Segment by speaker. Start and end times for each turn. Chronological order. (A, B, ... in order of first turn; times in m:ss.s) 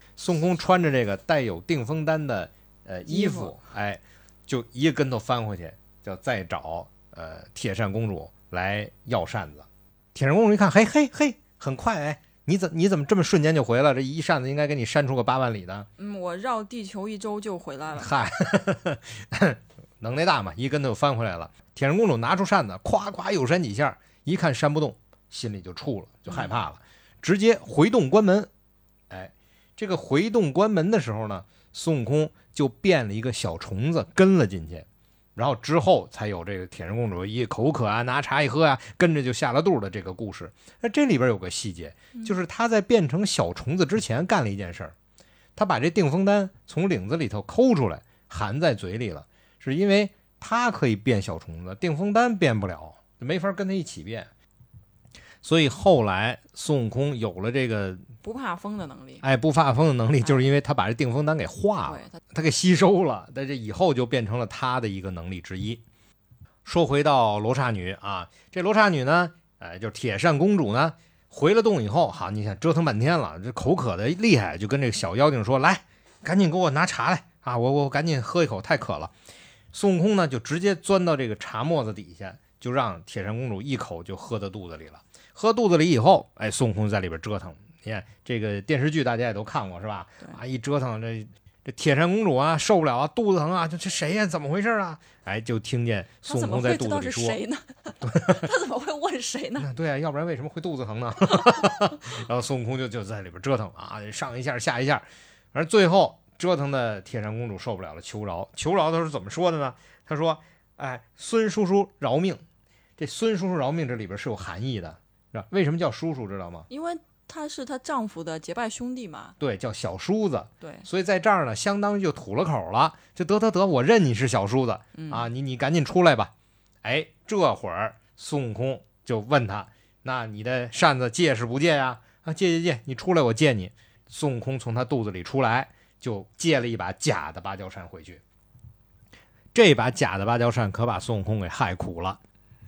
0:00.2-0:15.9 A
0:03.1-0:03.5 B
0:16.0-0:18.1 B
0:18.0-0:28.5 A
0:26.3-0:26.5 B
0:29.1-0:45.0 A
0:45.6-0:54.3 A
0:55.4-0:58.1 A
0:58.2-0:59.2 B
0:59.2-1:05.8 A
1:01.9-1:02.2 B
1:06.6-1:19.1 A
1:19.7-1:37.4 A
1:36.3-1:39.7 B
1:38.0-1:38.4 A
1:39.6-1:52.4 A
1:53.0-1:56.7 A
1:56.7-1:59.4 B
1:59.4-2:06.3 A
2:00.6-2:00.9 B
2:05.0-2:05.3 B
2:06.8-2:18.2 A
2:19.5-2:22.2 A